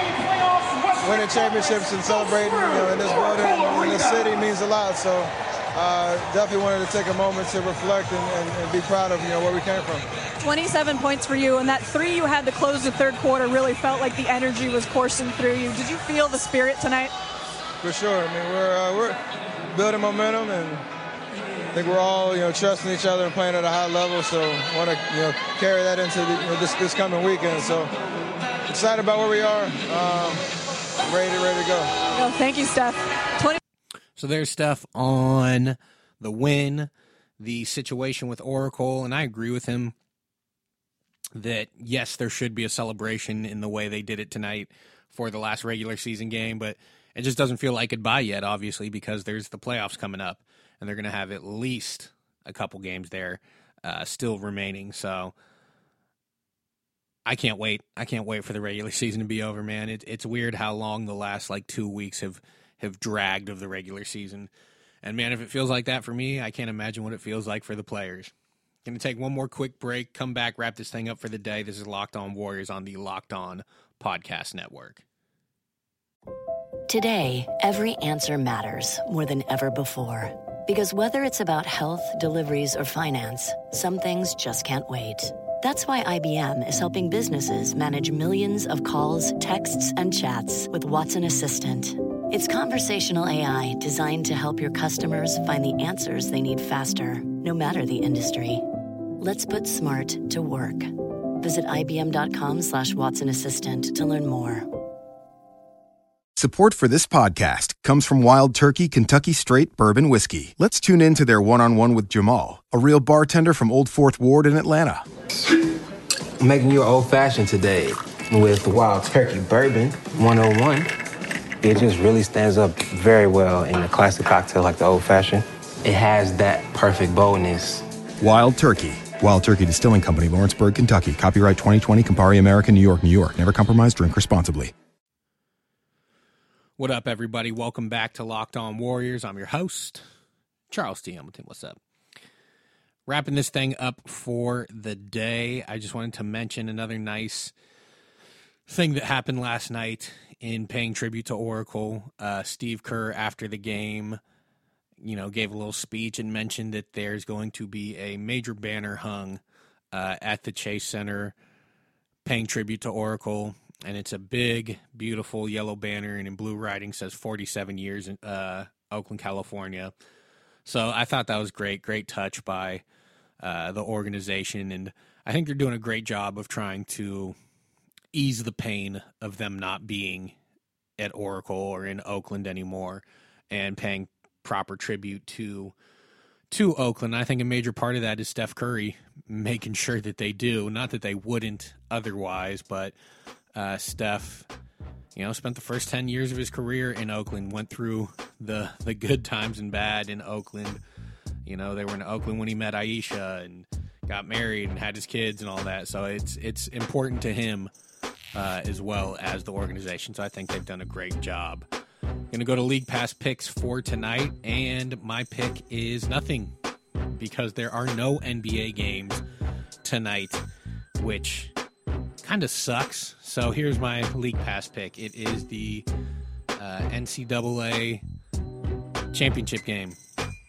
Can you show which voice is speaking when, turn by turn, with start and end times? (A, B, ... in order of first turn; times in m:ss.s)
0:01.0-0:10.0 A
0:10.4-0:17.1 B
0:17.8-0:19.2 A
0:19.7-0:20.8 A
0:21.7-0:27.9 A
0:28.6-0:30.4 A
0:31.0-0:31.9 A
0:32.1-0:33.6 B
0:34.2-0:39.9 C
0:41.4-0:55.3 C
0:57.2-1:04.5 C
1:05.0-1:08.3 C
1:08.8-1:15.0 C
1:16.9-1:38.6 D
1:39.2-1:44.7 D
1:46.4-1:55.0 E
1:56.4-2:00.9 F
2:01.6-2:07.8 F
2:08.2-2:14.7 E
2:16.8-2:20.0 C
2:20.7-2:21.8 C
2:23.1-2:27.5 C
2:28.7-2:34.2 C
2:35.0-2:39.4 C
2:39.9-2:41.4 C
2:42.2-2:49.9 C
2:50.6-2:52.8 C
2:53.4-2:57.4 C
2:58.1-3:00.4 C
3:01.0-3:05.7 C
3:06.5-3:12.9 C
3:13.5-3:14.5 C
3:15.1-3:20.8 C
3:21.4-3:27.7 C
3:28.3-3:31.6 C
3:32.3-3:36.5 C
3:37.1-3:39.2 C
3:39.8-3:40.4 C
3:41.0-3:41.5 C
3:42.2-3:45.9 C
3:46.6-3:48.0 C
3:49.1-3:50.0 C